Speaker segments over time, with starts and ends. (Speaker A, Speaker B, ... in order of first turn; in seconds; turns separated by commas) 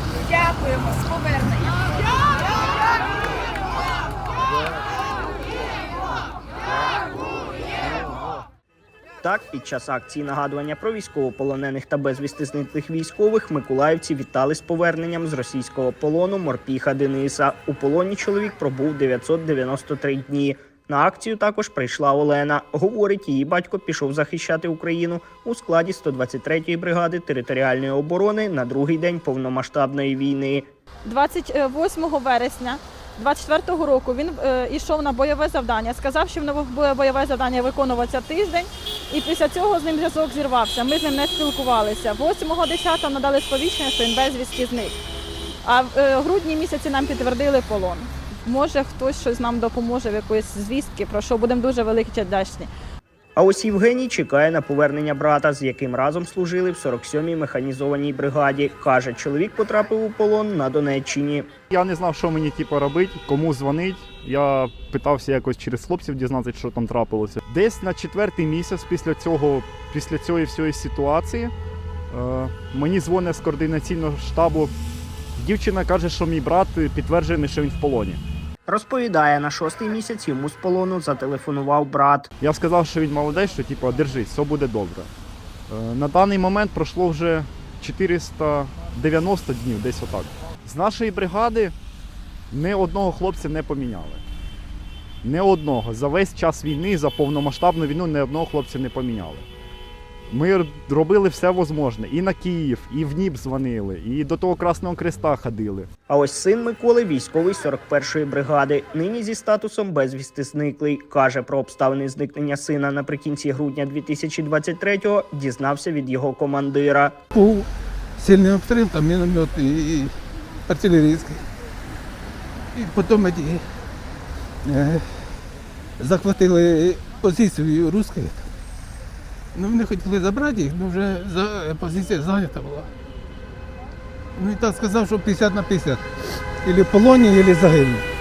Speaker A: 0.2-3.0, Speaker B: 9.2-30.7, Speaker C: 31.0-45.0, Speaker C: 45.6-52.7, Speaker B: 53.4-61.5, Speaker D: 61.7-71.5, Speaker D: 72.1-74.7, Speaker D: 75.3-78.2, Speaker B: 78.7-82.3, Speaker D: 82.4-85.1, Speaker D: 85.7-91.7, Speaker D: 92.5-94.2, Speaker D: 95.2-99.5, Speaker D: 100.3-105.9, Speaker B: 106.1-117.2, Speaker E: 117.3-120.2, Speaker E: 120.7-121.5, Speaker E: 122.7-123.7, Speaker E: 124.7-125.3, Speaker E: 126.0-128.5, Speaker E: 129.5-132.9, Speaker E: 134.3-136.0, Speaker E: 136.6-138.1